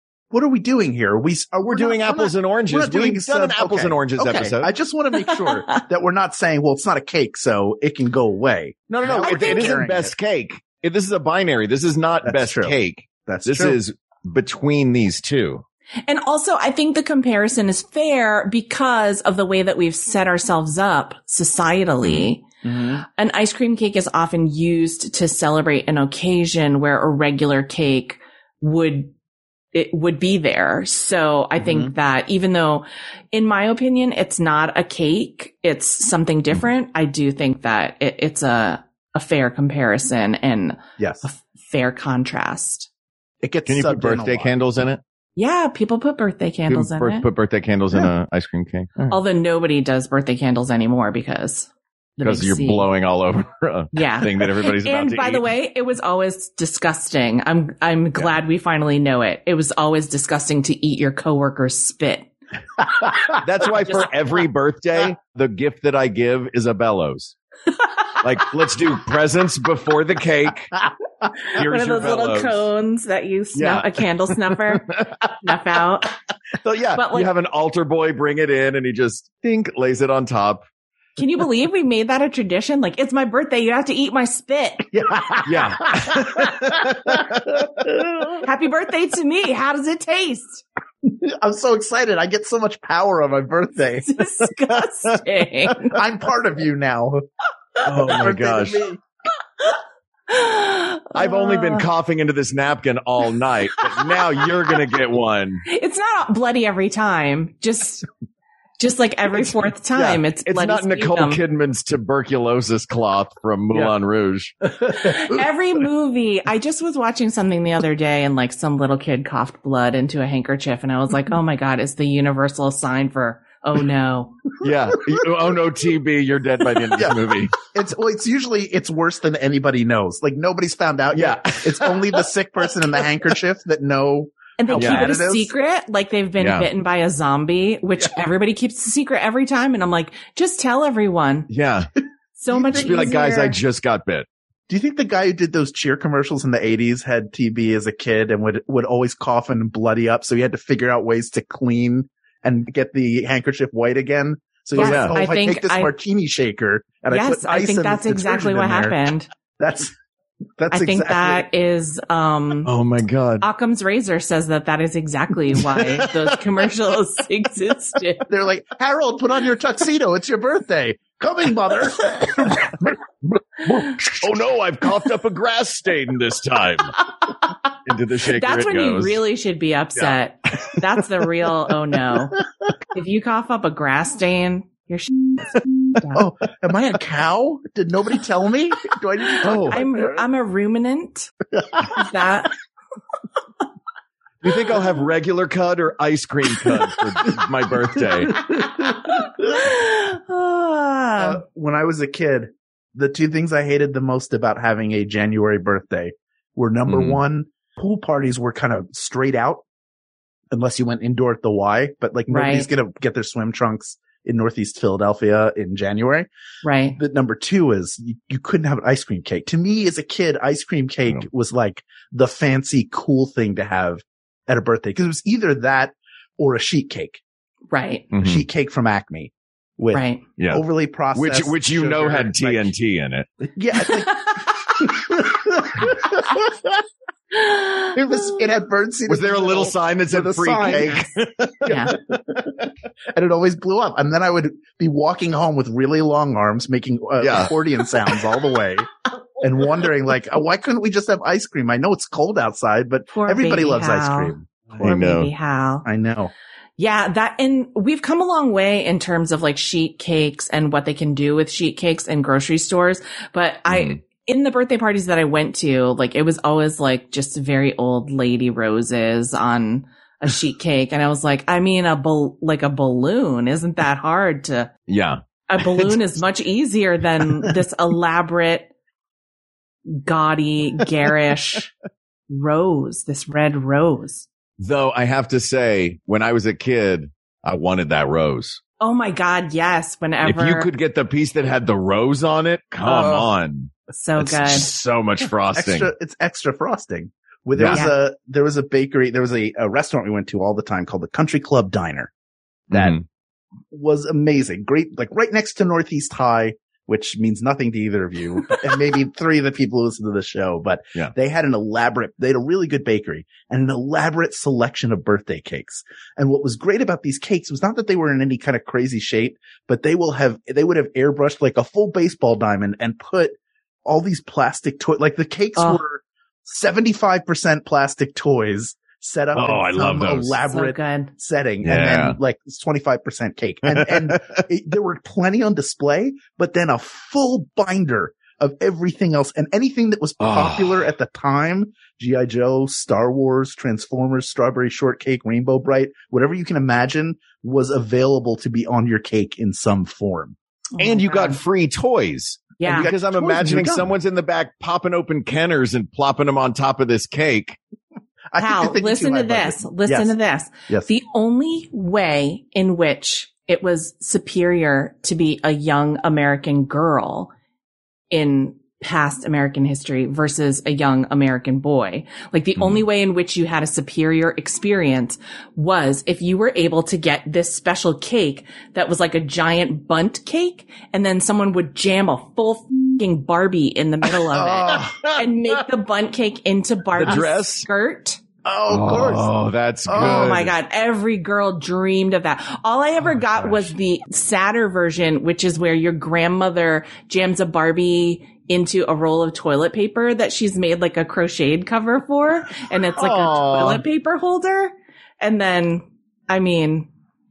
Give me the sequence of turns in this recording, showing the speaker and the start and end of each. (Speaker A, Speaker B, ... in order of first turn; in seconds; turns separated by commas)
Speaker A: 0.3-10.1, Speaker B: 1.6-4.7, Speaker B: 8.9-15.6, Speaker A: 12.2-13.8, Speaker C: 16.1-22.4, Speaker B: 22.0-22.3, Speaker A: 22.6-23.0, Speaker C: 23.2-29.1, Speaker C: 29.7-42.9, Speaker A: 31.6-31.9, Speaker A: 41.0-41.3, Speaker A: 43.4-44.6, Speaker B: 43.7-45.0, Speaker C: 45.4-47.3, Speaker B: 46.7-49.2, Speaker C: 49.1-52.9, Speaker B: 52.2-55.5, Speaker C: 54.0-62.3, Speaker B: 63.4-67.4, Speaker C: 63.8-64.1, Speaker B: 68.2-70.7, Speaker C: 71.5-76.1, Speaker B: 71.5-72.7, Speaker B: 73.5-74.0, Speaker B: 74.7-75.5, Speaker B: 76.6-80.6, Speaker C: 76.9-77.3, Speaker C: 81.2-84.9, Speaker A: 84.9-87.3, Speaker B: 85.5-87.9, Speaker A: 87.9-88.4, Speaker C: 88.4-90.6, Speaker A: 91.0-94.2, Speaker C: 94.0-96.0, Speaker A: 95.9-97.2, Speaker B: 97.8-98.8, Speaker A: 98.0-99.0, Speaker C: 100.3-101.9, Speaker B: 101.2-105.6, Speaker C: 105.7-108.1, Speaker C: 108.8-111.4, Speaker B: 109.9-114.5, Speaker A: 114.8-115.1, Speaker C: 114.9-124.3, Speaker B: 124.6-127.5, Speaker A: 127.0-135.5, Speaker B: 131.1-132.2, Speaker C: 134.6-141.5, Speaker B: 134.7-135.1, Speaker B: 136.4-136.7, Speaker B: 141.5-141.9, Speaker C: 142.4-143.6, Speaker A: 142.5-143.0, Speaker B: 142.7-144.3, Speaker A: 144.7-159.0, Speaker B: 154.8-155.2, Speaker C: 154.8-155.9, Speaker C: 157.1-159.3, Speaker A: 159.6-159.9, Speaker A: 160.6-161.4, Speaker C: 160.7-162.7, Speaker B: 162.6-163.5, Speaker C: 163.4-168.3, Speaker B: 165.8-166.1, Speaker A: 168.3-173.0, Speaker B: 173.7-176.9, Speaker B: 177.8-179.2, Speaker C: 178.3-186.2, Speaker B: 180.0-180.8, Speaker A: 186.1-190.2, Speaker B: 189.4-189.8, Speaker C: 189.7-191.3, Speaker C: 191.9-192.6, Speaker B: 194.4-198.5, Speaker A: 198.3-199.4, Speaker C: 199.2-201.4, Speaker A: 201.2-209.6, Speaker B: 206.9-207.2, Speaker A: 210.5-216.3, Speaker C: 212.3-212.7, Speaker C: 216.6-217.0, Speaker A: 217.0-227.2, Speaker C: 227.7-228.1, Speaker B: 228.1-228.4, Speaker A: 228.2-232.7, Speaker C: 229.9-230.2, Speaker B: 230.4-233.3, Speaker A: 233.4-236.6, Speaker C: 237.4-237.9, Speaker A: 237.9-241.1, Speaker B: 239.1-241.9, Speaker A: 241.6-242.6, Speaker A: 243.1-248.9, Speaker B: 247.2-247.5, Speaker A: 249.4-254.9, Speaker C: 253.1-255.9, Speaker B: 254.8-255.3, Speaker A: 255.8-256.3, Speaker C: 256.8-274.7, Speaker B: 263.7-264.0, Speaker B: 274.9-276.0, Speaker C: 275.5-278.7, Speaker C: 279.9-281.7, Speaker C: 282.3-284.3, Speaker B: 284.6-288.6, Speaker C: 288.8-290.7, Speaker B: 290.2-295.9, Speaker A: 292.9-293.2, Speaker C: 293.9-294.7, Speaker A: 295.2-302.1, Speaker B: 297.6-297.9, Speaker C: 297.7-297.9, Speaker A: 302.7-303.0, Speaker B: 302.7-303.0, Speaker A: 303.7-350.4, Speaker C: 325.6-325.8, Speaker B: 329.3-330.4, Speaker C: 330.5-331.1, Speaker B: 331.6-332.2, Speaker B: 333.7-334.4, Speaker B: 340.2-340.8, Speaker C: 350.8-351.4, Speaker B: 350.8-357.6, Speaker C: 352.6-352.9, Speaker A: 352.6-353.9, Speaker A: 358.3-360.1, Speaker C: 358.4-367.3, Speaker C: 368.1-388.2, Speaker B: 372.6-372.8, Speaker A: 384.4-384.9, Speaker B: 384.6-385.3, Speaker B: 387.0-387.7, Speaker A: 388.4-389.3, Speaker B: 388.7-390.5, Speaker A: 389.9-390.3, Speaker C: 390.0-406.9, Speaker B: 403.0-403.8